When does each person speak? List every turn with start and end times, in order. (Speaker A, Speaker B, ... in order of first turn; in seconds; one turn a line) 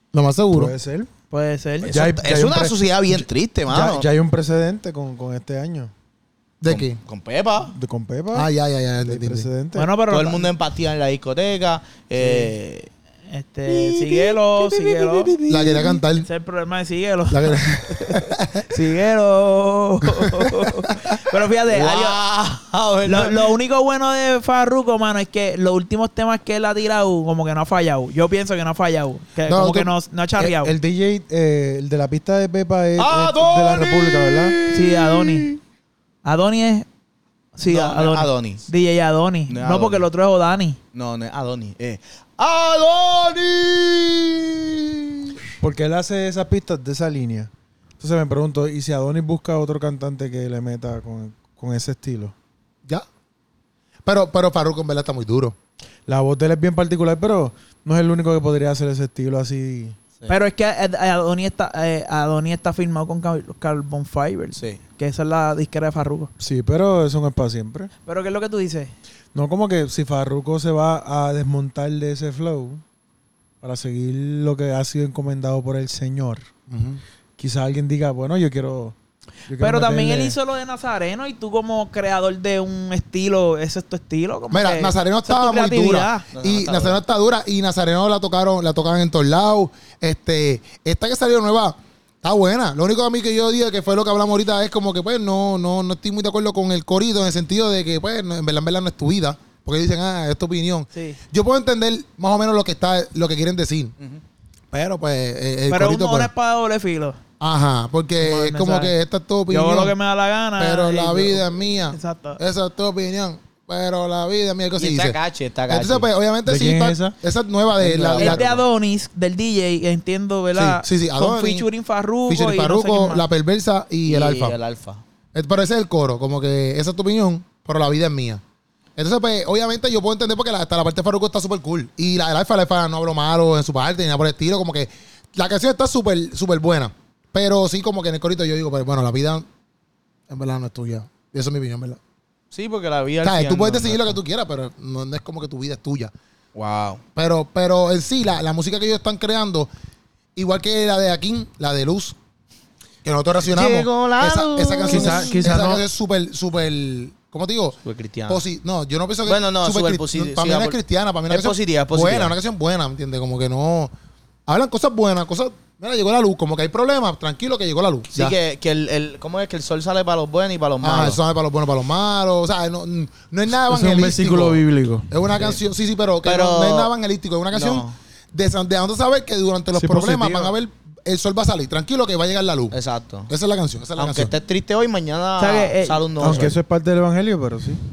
Speaker A: 0.1-0.7
Speaker B: 0.5-1.1
Speaker C: 1.3-1.9
Speaker D: 1.8-4.1
Speaker B: 1.9-5.9
Speaker A: 6.6-7.0
Speaker D: 6.7-7.7
Speaker B: 7.7-8.5
Speaker A: 8.3-9.5
Speaker B: 9.0-9.9
Speaker C: 9.8-10.5
Speaker D: 10.1-12.9
Speaker C: 13.3-15.3
Speaker D: 13.7-16.0
Speaker A: 15.5-16.3
Speaker C: 16.2-22.2
Speaker A: 17.3-18.7
Speaker D: 21.7-23.6
Speaker C: 23.1-30.7
Speaker A: 29.5-29.9
Speaker B: 30.4-34.6
Speaker D: 33.0-35.6
Speaker C: 34.7-35.5
Speaker C: 36.2-36.9
Speaker C: 37.6-40.8
Speaker D: 37.7-38.7
Speaker D: 39.5-40.1
Speaker D: 40.9-45.4
Speaker B: 45.6-52.4
Speaker A: 54.1-55.5
Speaker B: 56.1-60.0
Speaker C: 60.3-66.3
Speaker B: 66.4-67.9
Speaker C: 68.0-68.9
Speaker B: 69.3-72.8
Speaker B: 73.6-76.5
Speaker A: 76.7-77.0
Speaker B: 77.4-79.0
Speaker B: 79.5-80.4
Speaker C: 79.6-86.3
Speaker A: 84.5-104.0
Speaker D: 86.3-87.0
Speaker C: 100.9-101.2
Speaker A: 104.7-106.3
Speaker C: 105.7-107.2
Speaker A: 107.4-110.0
Speaker C: 108.2-108.9
Speaker C: 109.5-112.4
Speaker A: 110.6-115.2
Speaker D: 114.8-116.1
Speaker A: 115.7-118.4
Speaker B: 116.5-117.2
Speaker D: 117.8-118.6
Speaker C: 118.2-123.2
Speaker A: 120.5-121.7
Speaker A: 122.3-124.6
Speaker D: 124.1-125.0
Speaker A: 125.3-128.4
Speaker A: 129.0-139.5
Speaker A: 140.3-142.0
Speaker D: 142.5-144.2
Speaker A: 143.2-146.1
Speaker D: 146.6-147.0
Speaker A: 147.2-149.7
Speaker A: 150.4-152.2
Speaker A: 153.0-157.8
Speaker D: 153.5-155.5
Speaker B: 154.9-155.8
Speaker D: 157.8-158.4
Speaker A: 158.3-163.9
Speaker D: 159.3-160.8
Speaker D: 161.3-162.3
Speaker A: 164.5-168.4
Speaker D: 168.1-171.2
Speaker A: 170.8-182.8
Speaker B: 173.7-175.1
Speaker D: 176.2-176.9
Speaker D: 177.5-177.9
Speaker B: 179.7-180.6
Speaker D: 182.7-183.3
Speaker A: 183.3-184.3
Speaker D: 184.0-186.6
Speaker C: 185.4-186.0
Speaker B: 186.2-187.8